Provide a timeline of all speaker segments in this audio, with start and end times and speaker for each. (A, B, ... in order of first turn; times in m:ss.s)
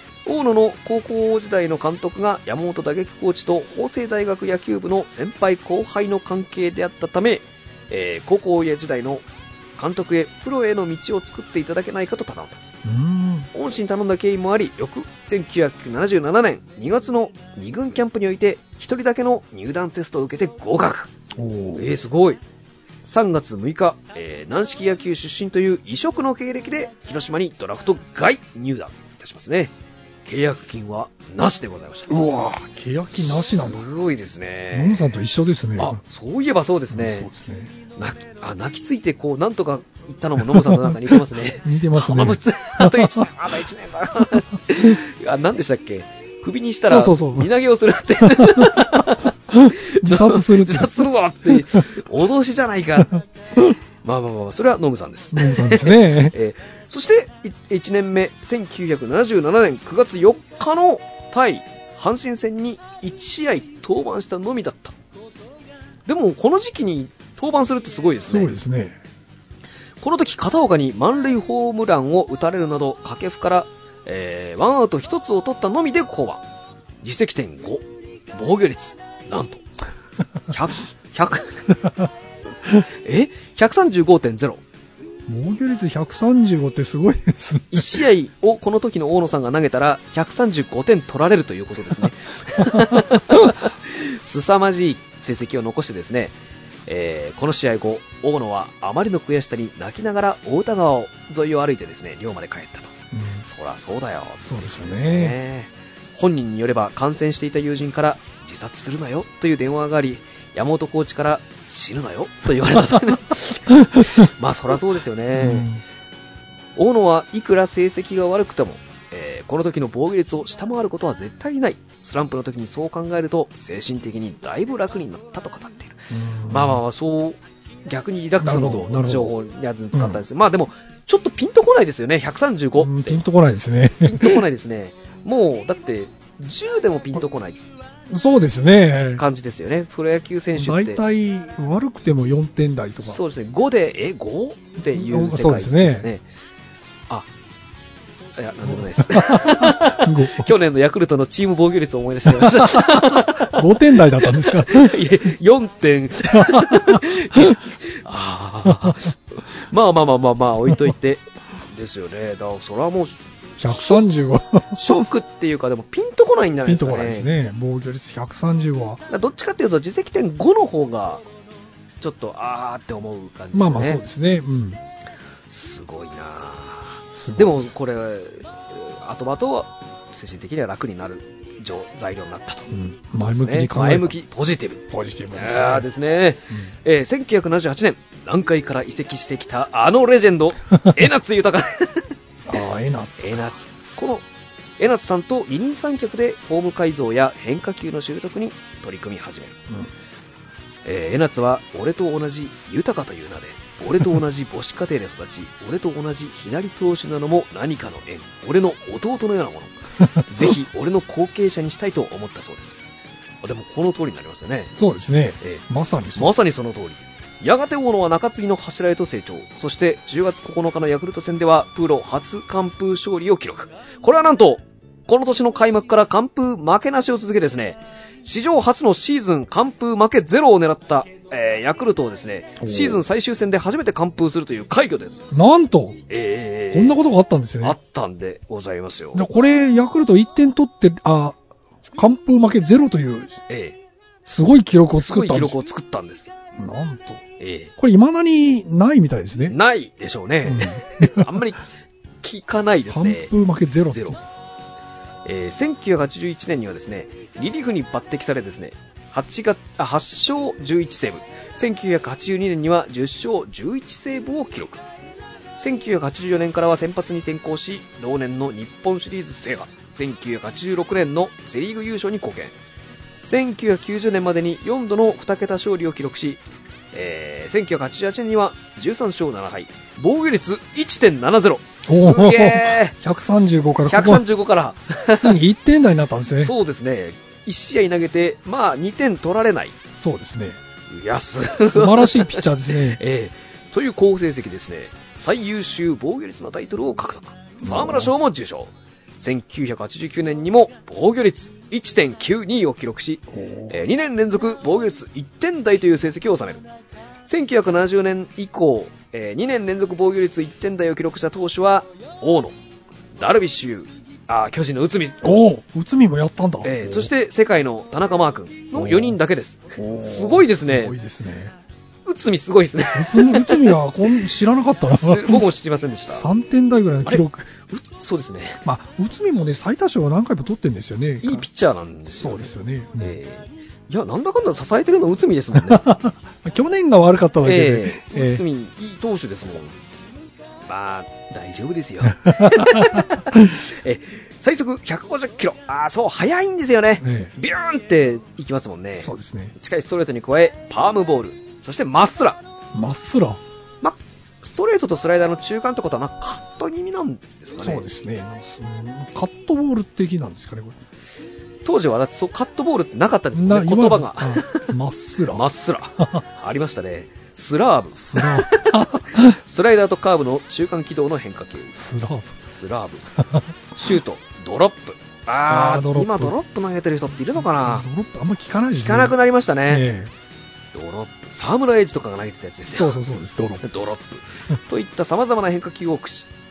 0:00.2-0:09.2 A
0:09.8-0:12.6 A
0:12.8-0:13.5 B
0:13.5-0:21.1 A
0:21.4-0:21.9 B
0:21.8-0:22.4 A
0:23.1-0:29.7 A
0:30.2-0:32.1 A
0:32.1-0:33.8 B
0:33.1-0:35.1 A
0:34.7-0:36.0 B
0:35.8-0:37.3 A
0:36.9-0:37.7 B
0:38.0-0:53.2 A
0:40.5-0:43.3 B
0:46.9-0:47.5 B
0:48.2-0:51.6 B
0:54.0-1:05.0 A
0:55.3-0:56.3 B
1:06.0-1:08.5 A
1:08.3-1:09.0 B
1:10.0-1:16.4 A
1:17.0-1:19.6 A
1:20.5-1:21.7 A
1:22.8-1:24.6 A
1:25.3-1:28.0 B
1:27.7-1:36.3 A
1:32.7-1:32.9 B
1:36.9-1:55.7 A
1:43.1-1:43.5 B
1:44.4-1:45.4 B
1:53.9-1:54.2 B
1:55.3-1:55.8 B
1:56.8-2:13.2 A
2:06.1-2:06.8 B
2:08.4-2:09.3 B
2:09.9-2:10.2 B
2:12.8-2:14.4 B
2:14.0-2:17.6 A
2:18.1-2:19.2 B
2:19.2-2:21.0 A
2:20.5-2:23.2 B
2:23.0-2:26.2 A
2:24.9-2:26.1 B
2:28.4-2:44.0 A
2:28.6-2:30.5 B
2:32.2-2:35.0 B
2:36.3-2:37.5 B
2:38.6-2:39.0 B
2:43.6-2:45.0 B
2:44.7-2:47.3 A
2:46.6-2:49.0 B
2:49.1-2:51.2 A
2:52.0-2:54.0 A
2:53.5-2:54.8 B
2:55.5-3:12.1 A
2:57.1-2:57.7 B
3:02.7-3:04.1 B
3:04.9-3:05.9 B
3:12.5-3:13.5 B
3:13.2-3:14.2 A
3:14.8-3:19.6 A
3:20.8-3:32.8 A
3:33.4-3:34.7 A
3:34.7-3:36.3 B
3:35.4-3:55.4 A
3:52.6-3:53.0 B
3:55.3-3:56.0 B
3:56.1-3:57.0 A
3:56.7-3:57.8 B
3:57.6-3:59.2 A
3:59.1-4:01.4 B
4:02.0-4:03.3 B
4:03.5-4:03.8 A
4:04.2-4:05.5 B
4:05.0-4:06.3 A
4:06.6-4:07.2 B
4:07.4-4:07.7 A
4:07.8-4:09.6 B
4:09.5-4:11.6 A
4:10.4-4:11.4 B
4:12.2-4:13.3 A
4:12.9-4:14.2 B
4:13.9-4:14.2 A
4:15.2-4:24.8 A
4:25.6-4:32.6 A
4:33.2-4:36.4 A
4:36.9-4:43.0 A
4:41.9-4:44.2 B
4:43.8-4:45.4 A
4:45.1-4:46.5 B
4:46.4-4:49.8 A
4:50.0-4:50.6 B
4:50.9-5:06.6 A
4:51.6-4:53.0 B
4:57.6-4:58.1 B
5:03.3-5:03.7 B
5:07.2-5:12.6 A
5:13.1-5:15.5 A
5:15.2-5:17.1 B
5:16.6-5:20.9 A
5:18.7-5:19.2 B
5:19.8-5:21.5 B
5:22.0-5:24.2 A
5:22.9-5:25.4 B
5:24.9-5:26.3 A
5:26.1-5:27.5 B
5:27.0-5:28.6 A
5:28.6-5:31.4 B
5:31.2-5:35.9 A
5:32.2-5:33.2 B
5:35.6-5:38.4 B
5:37.4-5:39.7 A
5:40.6-5:52.4 A
5:42.0-5:43.5 B
5:47.0-5:47.3 B
5:49.0-5:49.5 B
5:52.7-5:53.4 B
5:53.8-5:57.8 A
5:57.6-6:00.8 B
6:01.6-6:04.7 A
6:03.3-6:05.5 B
6:05.3-6:11.8 A
6:06.0-6:06.2 B
6:08.0-6:09.4 B
6:11.7-6:12.4 B
6:12.5-6:13.1 A
6:13.2-6:13.9 B
6:13.8-6:17.8 A
6:15.5-6:16.4 B
6:17.3-6:19.2 B
6:18.7-6:19.8 A
6:19.7-6:20.1 B
6:20.7-6:23.0 A
6:22.7-6:23.6 B
6:23.6-6:26.3 A